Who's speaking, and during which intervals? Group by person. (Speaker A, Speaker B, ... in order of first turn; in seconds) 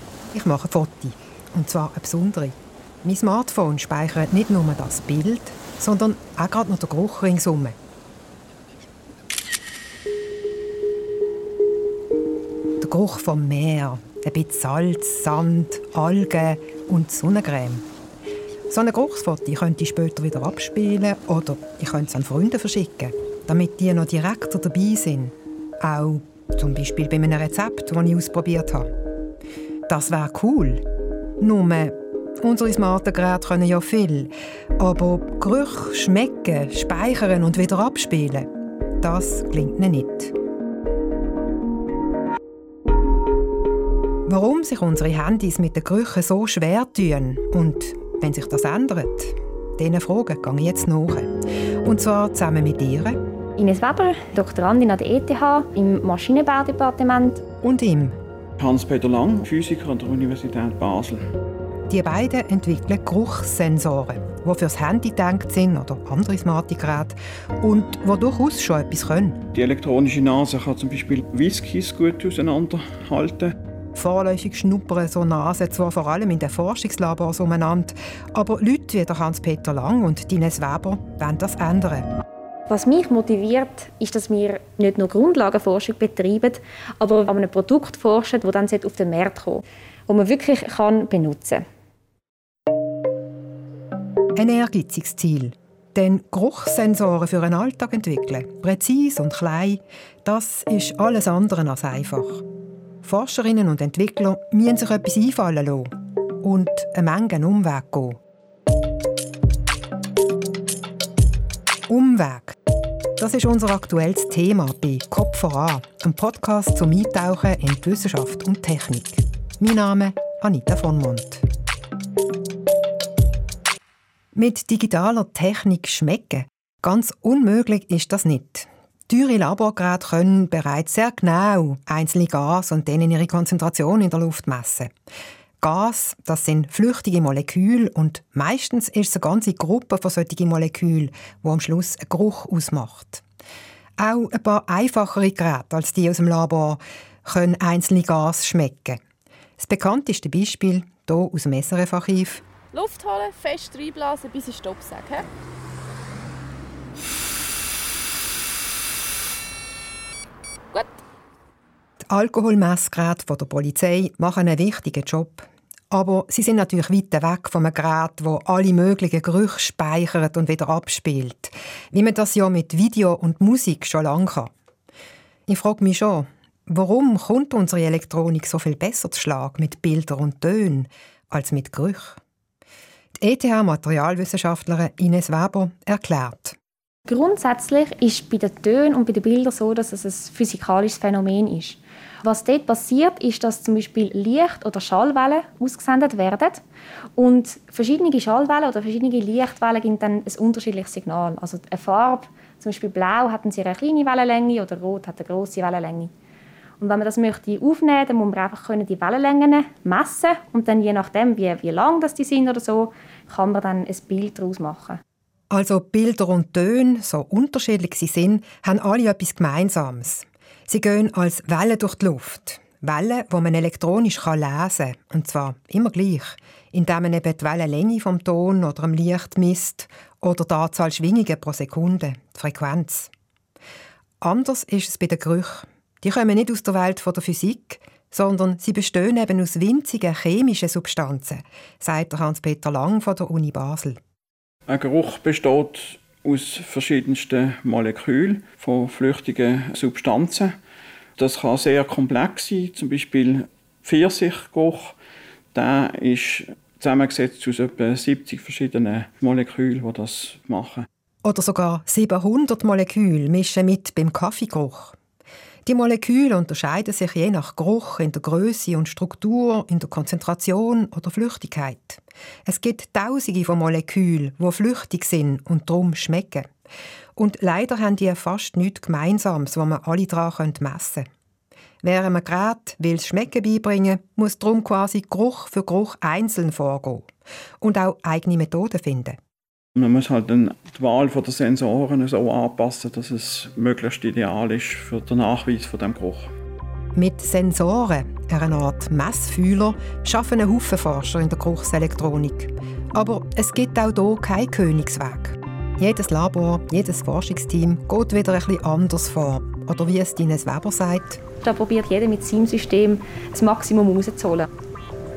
Speaker A: 0.3-7.8, 12.8-17.9, 18.7-28.9, 29.9-30.8, 31.4-40.3, 44.2-53.2, 57.6-58.2, 61.9-69.4, 73.9-82.1, 94.3-102.4, 103.0-108.2, 111.9-112.6, 113.2-121.4, 124.3-134.9, 135.6-143.2, 144.0-149.0, 149.6-152.4, 162.1-174.5, 175.5-182.2, 183.2-186.6, 215.5-233.1, 234.2-244.0, 261.2-264.9, 265.6-276.5, 277.1-281.1, 281.8-287.1, 287.6-289.2, 296.9-311.2
Speaker B: 53.6-57.4, 82.7-91.6, 187.1-196.6, 197.2-206.1, 206.8-215.0, 311.4-314.5
Speaker C: 58.6-61.2, 69.5-73.5, 244.7-250.5, 251.2-254.9, 255.5-260.9, 289.8-296.3
Speaker D: 152.7-155.3